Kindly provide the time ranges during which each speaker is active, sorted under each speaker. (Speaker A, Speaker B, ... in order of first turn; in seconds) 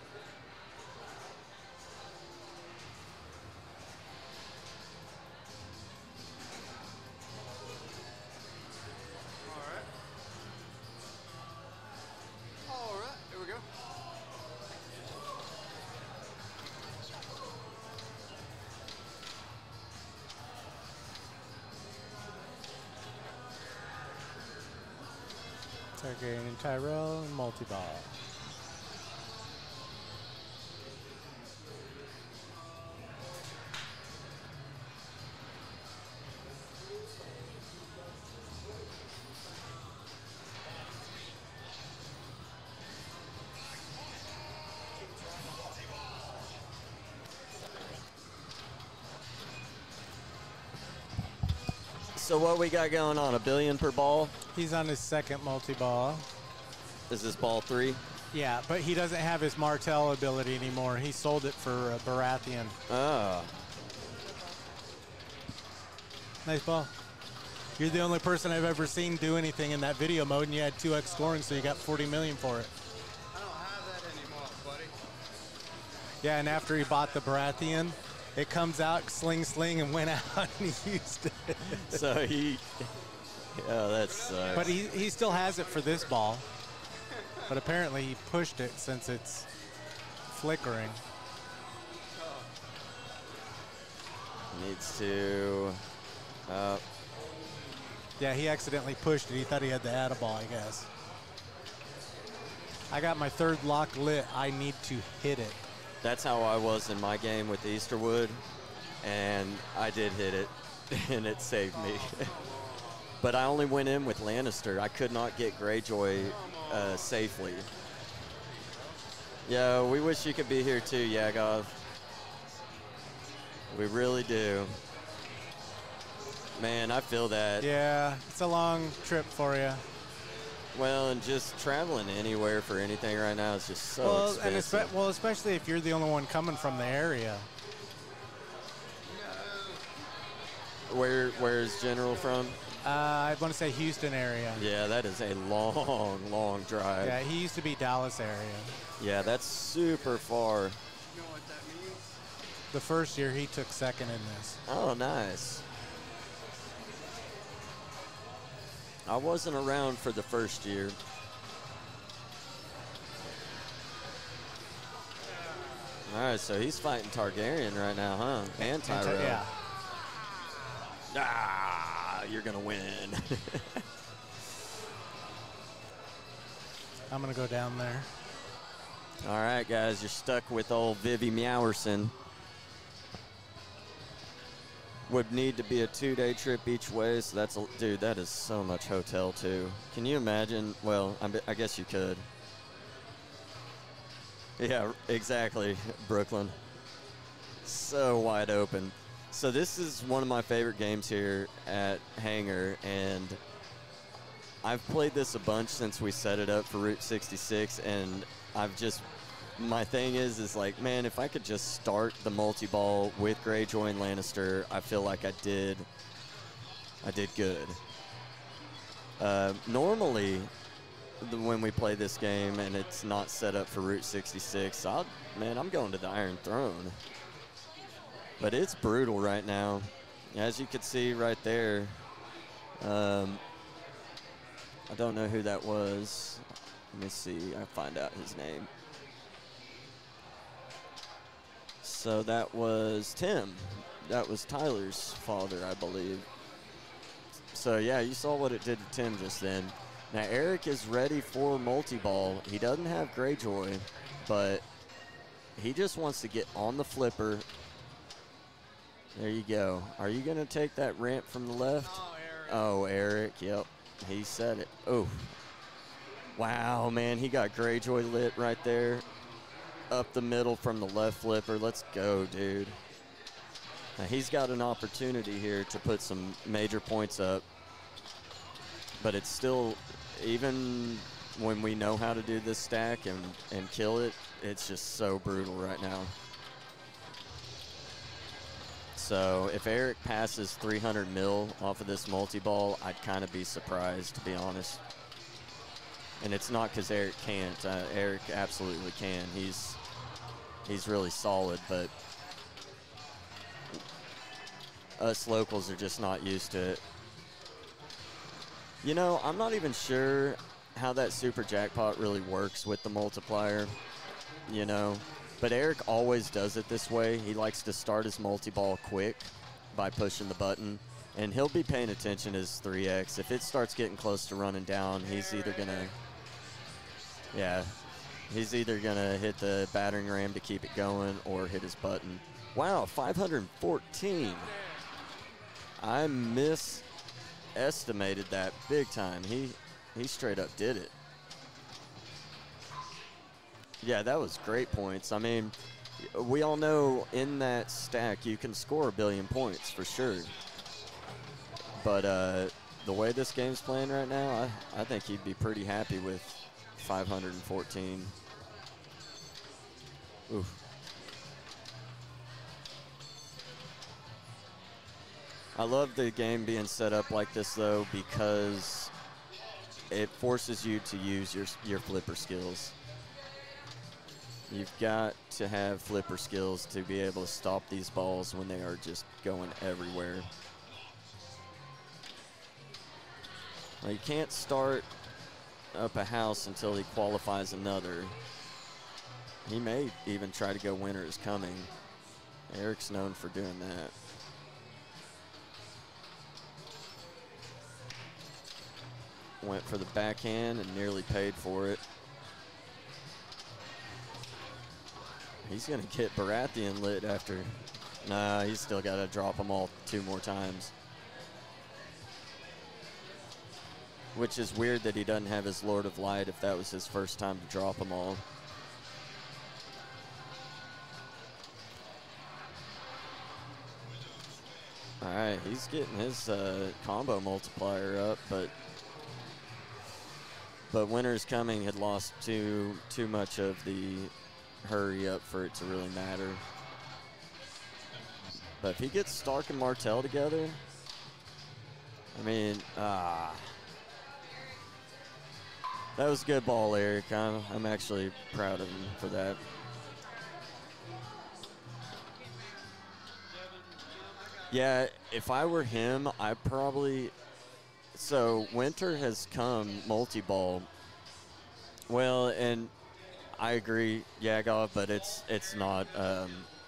Speaker A: 9.4-9.9, 12.7-13.6, 71.1-71.6, 73.3-74.9, 84.1-86.2, 87.1-87.5, 92.2-92.5, 111.7-113.2, 116.1-117.4, 118.4-119.0, 139.1-139.9, 141.1-142.6, 149.0-150.2, 151.1-152.2, 165.7-165.9, 262.0-262.6, 453.8-454.5
Speaker B: 26.0-28.1, 54.5-56.2, 58.3-62.8, 66.4-66.9, 67.8-72.7, 76.2-82.0, 84.6-86.4, 87.5-89.5, 90.3-91.0, 98.2-100.9, 102.9-105.6, 127.6-129.8, 134.0-137.5, 142.8-144.6, 147.0-148.8, 152.7-154.6, 168.6-169.5, 177.1-178.1
Speaker C: 52.1-54.3, 57.1-58.0, 62.9-63.5, 81.7-82.9, 83.5-84.7, 94.5-95.8, 96.5-96.8, 106.0-108.4, 109.0-112.3, 113.2-117.7, 119.5-121.7, 123.7-124.7, 126.6-127.7, 130.7-134.9, 140.9-142.6, 144.5-147.2, 149.0-150.8, 154.7-155.6, 159.1-161.0, 166.1-169.4, 171.1-173.8, 179.2-182.1, 185.1-192.2, 194.6-196.6, 197.6-203.4, 204.6-209.1, 209.6-215.9, 217.0-217.8, 219.2-220.5, 221.2-227.0, 228.4-232.0, 232.8-233.4, 234.9-238.7, 241.8-246.3, 247.5-254.6, 255.6-257.4, 259.1-265.3, 266.4-269.1, 269.9-272.8, 274.0-277.4, 279.0-286.1, 288.9-294.8, 296.2-299.8, 300.6-301.9, 305.0-306.8, 308.8-313.7, 314.5-325.9, 327.3-327.7, 328.3-334.5, 335.8-336.9, 337.6-340.9, 343.8-350.3, 351.8-358.1, 360.3-360.6, 365.6-368.9, 369.9-372.7, 374.5-380.3, 383.8-384.9, 385.7-388.1, 389.4-391.7, 392.5-393.9, 399.4-401.8, 405.4-410.7, 414.1-418.2, 425.0-428.5, 430.7-434.1, 434.6-436.4, 438.6-440.6, 442.1-443.6, 445.9-449.4, 454.5-457.1, 457.9-460.7, 461.9-462.7, 463.4-466.5